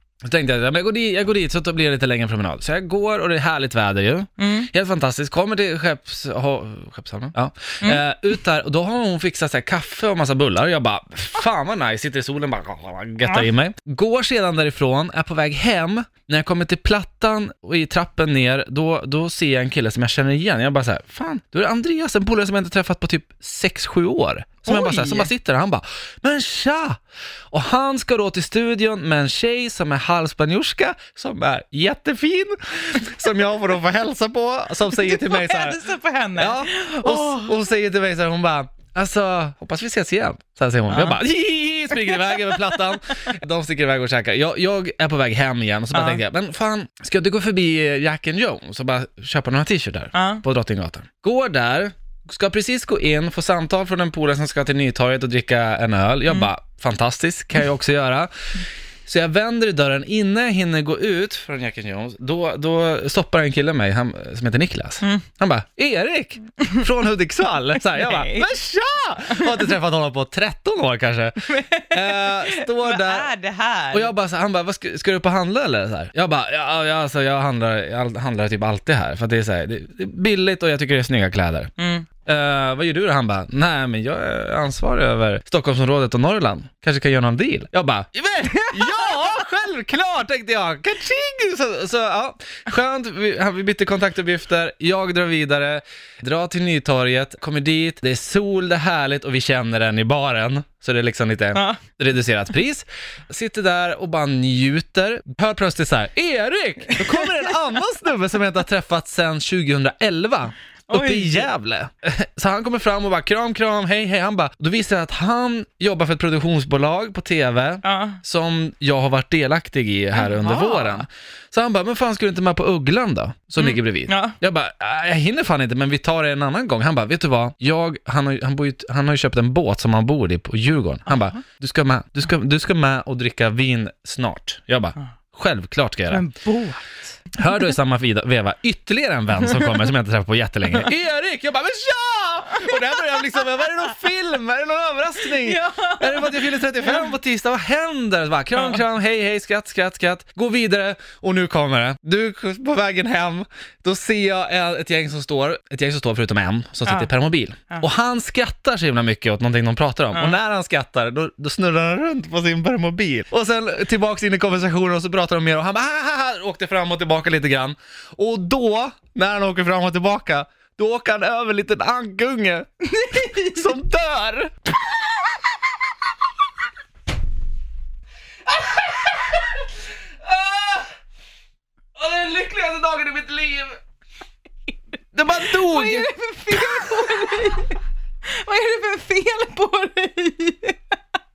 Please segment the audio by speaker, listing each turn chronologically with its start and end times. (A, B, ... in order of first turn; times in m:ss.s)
0:00.2-0:27.0 A
0:04.4-0:04.7 B
0:24.6-0:25.3 B
0:27.5-0:35.8 A
0:34.9-0:37.6 B
0:36.4-1:13.3 A
0:40.9-0:41.2 B
0:45.9-0:46.2 B
0:50.1-0:50.4 B
1:07.9-1:08.5 B
1:09.3-1:09.7 B
1:11.5-1:14.1 B
1:13.9-1:21.7 A
1:21.8-1:22.0 B
1:22.2-2:16.2 A
1:28.4-1:29.3 B
1:41.5-1:41.8 B
1:47.0-1:47.5 B
1:50.9-1:51.5 B
1:57.8-1:58.2 B
2:00.2-2:01.0 B
2:03.6-2:04.4 B
2:16.1-2:17.1 B
2:17.3-2:54.5 A
2:22.7-2:23.4 B
2:25.3-2:27.0 B
2:28.5-2:28.8 B
2:36.8-2:37.1 B
2:40.1-2:40.4 B
2:52.9-2:53.6 B
2:58.8-2:59.3 A
3:00.2-3:00.9 A
3:02.0-3:03.8 A
3:05.1-3:06.8 A
3:05.4-3:11.0 B